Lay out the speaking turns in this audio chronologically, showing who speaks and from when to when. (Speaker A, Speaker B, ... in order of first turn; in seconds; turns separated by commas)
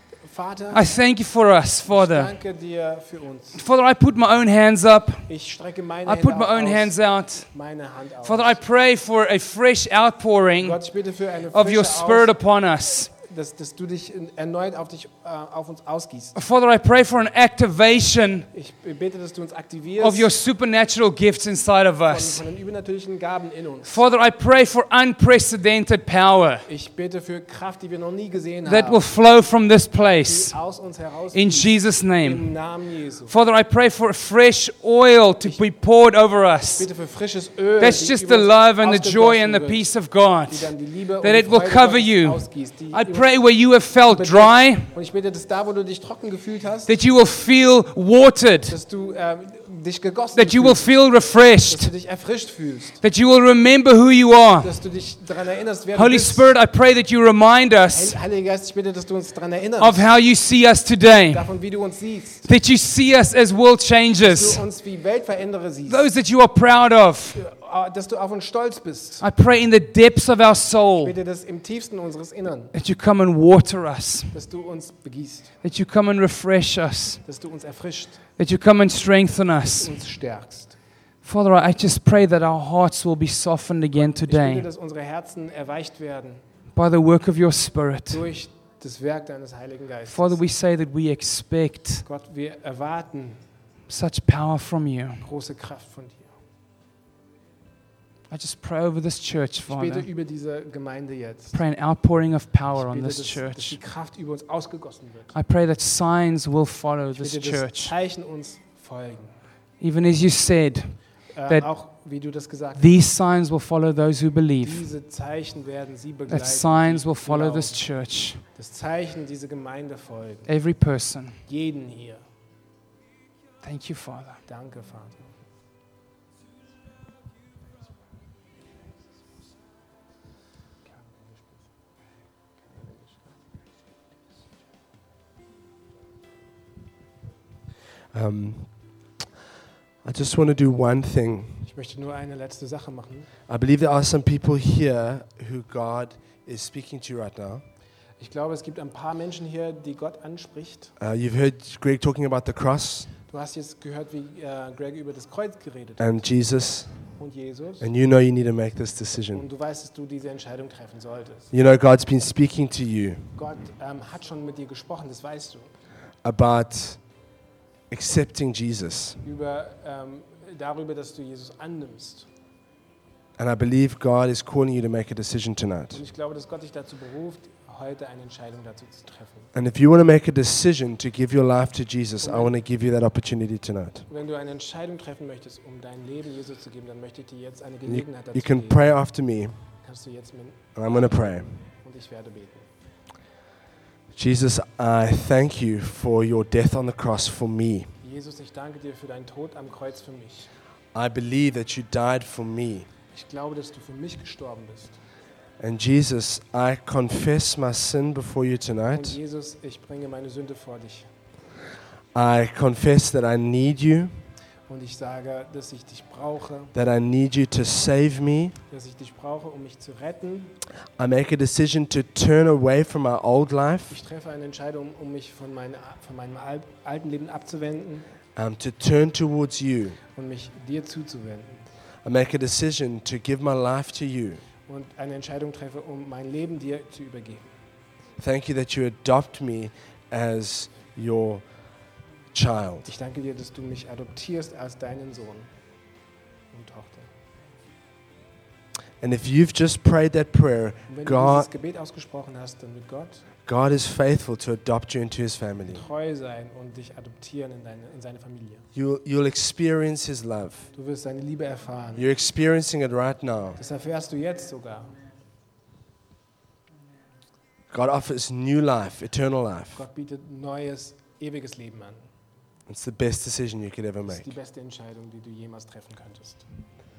Speaker A: 0.2-0.9, Speaker B: 0.7-2.3, Speaker A: 1.9-3.6, Speaker B: 3.5-5.3, Speaker A: 5.3-8.6, Speaker B: 6.0-7.5, Speaker B: 8.2-10.8, Speaker A: 10.6-12.3, Speaker B: 11.5-13.1, Speaker A: 13.1-16.4, Speaker B: 16.3-18.5, Speaker A: 18.5-20.3, Speaker B: 20.0-22.4, Speaker A: 22.1-24.0, Speaker B: 23.9-26.7, Speaker A: 26.6-29.1, Speaker B: 28.6-30.6, Speaker A: 30.2-33.3, Speaker B: 31.3-32.5, Speaker B: 33.3-36.9, Speaker A: 36.8-39.9, Speaker B: 37.8-44.9, Speaker A: 40.4-43.3, Speaker A: 44.1-46.9, Speaker B: 46.9-48.8, Speaker A: 48.7-50.9, Speaker B: 50.4-51.9, Speaker A: 51.7-53.0, Speaker B: 53.0-54.7, Speaker A: 54.6-56.5, Speaker B: 55.9-58.2, Speaker A: 57.9-60.1, Speaker B: 59.8-61.5, Speaker A: 61.3-62.4, Speaker B: 62.4-64.6, Speaker A: 64.2-66.1, Speaker B: 65.8-67.4, Speaker A: 67.3-69.3, Speaker B: 69.2-71.1, Speaker A: 71.0-72.7, Speaker B: 72.7-74.3, Speaker A: 74.3-75.5, Speaker B: 75.6-77.2, Speaker A: 77.2-78.2, Speaker B: 78.4-79.9, Speaker A: 79.8-80.8, Speaker B: 81.2-84.7, Speaker A: 83.9-86.4, Speaker B: 86.7-88.2, Speaker A: 88.1-90.4, Speaker B: 90.0-92.0, Speaker A: 92.0-93.4, Speaker B: 93.9-95.3, Speaker A: 95.2-96.3, Speaker B: 98.3-100.0, Speaker A: 99.7-101.6, Speaker B: 101.5-103.8, Speaker A: 102.7-105.3, Speaker B: 105.3-107.9, Speaker A: 107.2-109.4, Speaker B: 109.8-111.7, Speaker A: 111.3-113.0, Speaker B: 112.8-114.9, Speaker A: 114.6-117.9, Speaker B: 116.3-118.4, Speaker A: 118.4-120.5, Speaker B: 120.5-121.4, Speaker A: 121.5-122.2, Speaker B: 123.6-124.4, Speaker A: 124.5-125.3, Speaker C: 138.1-138.7, Speaker C: 140.0-141.6, Speaker A: 141.7-143.3, Speaker C: 143.5-147.6, Speaker A: 148.2-150.9, Speaker C: 151.0-153.1, Speaker A: 153.3-156.2, Speaker C: 156.0-157.0, Speaker A: 157.2-157.9, Speaker C: 157.8-159.4, Speaker A: 159.3-161.5, Speaker C: 161.5-163.3, Speaker A: 163.3-165.7, Speaker C: 166.2-167.0, Speaker C: 167.9-169.2, Speaker A: 169.2-172.3, Speaker C: 173.4-176.0, Speaker A: 175.9-179.5, Speaker C: 179.5-184.1, Speaker A: 182.2-182.5, Speaker A: 184.1-188.8, Speaker C: 187.9-189.5, Speaker A: 189.8-192.7, Speaker C: 190.8-191.5, Speaker C: 194.1-197.9, Speaker A: 198.0-200.5, Speaker C: 200.9-202.9, Speaker A: 203.1-205.0, Speaker C: 205.6-209.2, Speaker A: 208.9-211.1, Speaker C: 212.1-214.1, Speaker A: 214.7-216.7, Speaker C: 216.7-218.6, Speaker A: 218.7-220.6, Speaker C: 221.0-224.0, Speaker A: 223.9-228.1, Speaker C: 228.3-230.0, Speaker A: 230.1-231.7, Speaker C: 232.0-234.4, Speaker A: 234.7-237.5, Speaker C: 238.2-241.4, Speaker C: 242.3-242.8, Speaker A: 242.8-245.5, Speaker A: 246.5-247.1, Speaker C: 249.0-251.5, Speaker A: 250.9-253.2, Speaker C: 253.4-255.8, Speaker A: 255.7-258.6, Speaker C: 258.7-260.7, Speaker A: 260.7-262.1, Speaker C: 261.9-263.6, Speaker A: 263.6-264.9, Speaker C: 267.7-269.8, Speaker A: 269.7-272.0, Speaker C: 272.7-274.3, Speaker A: 274.1-276.4